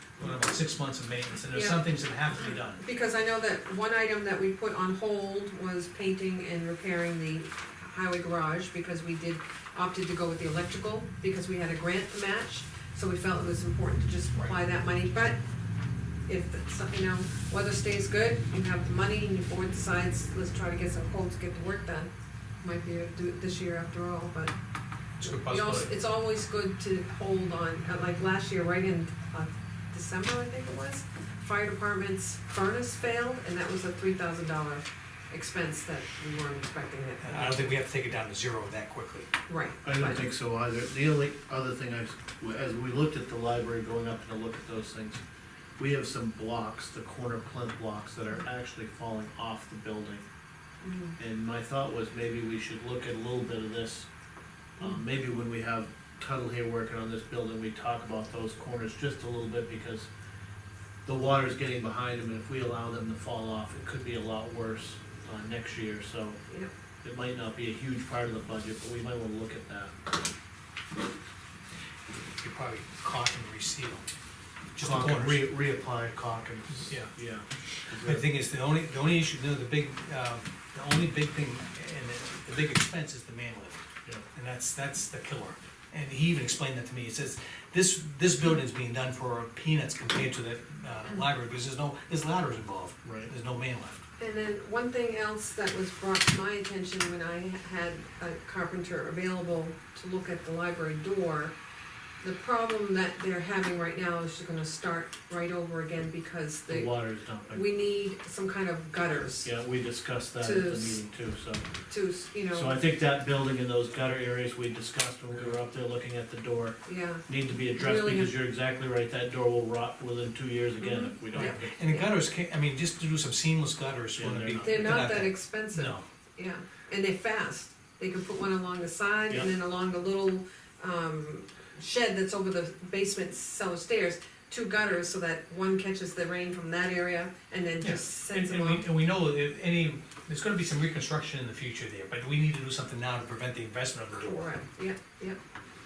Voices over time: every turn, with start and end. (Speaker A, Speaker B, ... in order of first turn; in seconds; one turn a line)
Speaker A: 0.2-2.8
Speaker B: 1.5-1.9
Speaker B: 2.8-15.4
Speaker B: 16.3-22.1
Speaker B: 22.6-24.5
Speaker A: 25.2-26.0
Speaker B: 25.2-37.7
Speaker A: 37.2-39.3
Speaker B: 39.5-40.2
Speaker C: 39.8-45.2
Speaker C: 45.8-50.2
Speaker B: 50.8-51.2
Speaker C: 51.2-54.1
Speaker C: 54.8-60.1
Speaker C: 61.0-66.4
Speaker C: 67.0-69.9
Speaker A: 72.4-74.0
Speaker A: 74.8-75.5
Speaker C: 74.8-78.3
Speaker A: 76.9-77.1
Speaker A: 78.0-83.8
Speaker A: 84.3-94.0
Speaker C: 93.0-93.3
Speaker B: 94.2-101.5
Speaker B: 102.2-107.0
Speaker C: 106.7-107.6
Speaker B: 107.5-109.5
Speaker C: 109.4-111.7
Speaker B: 110.4-111.0
Speaker B: 111.9-112.8
Speaker C: 112.5-121.8
Speaker A: 115.3-115.6
Speaker B: 116.8-118.3
Speaker B: 120.8-122.1
Speaker A: 121.3-126.0
Speaker C: 124.2-125.1
Speaker B: 124.6-138.8
Speaker A: 137.8-144.6
Speaker B: 144.2-145.4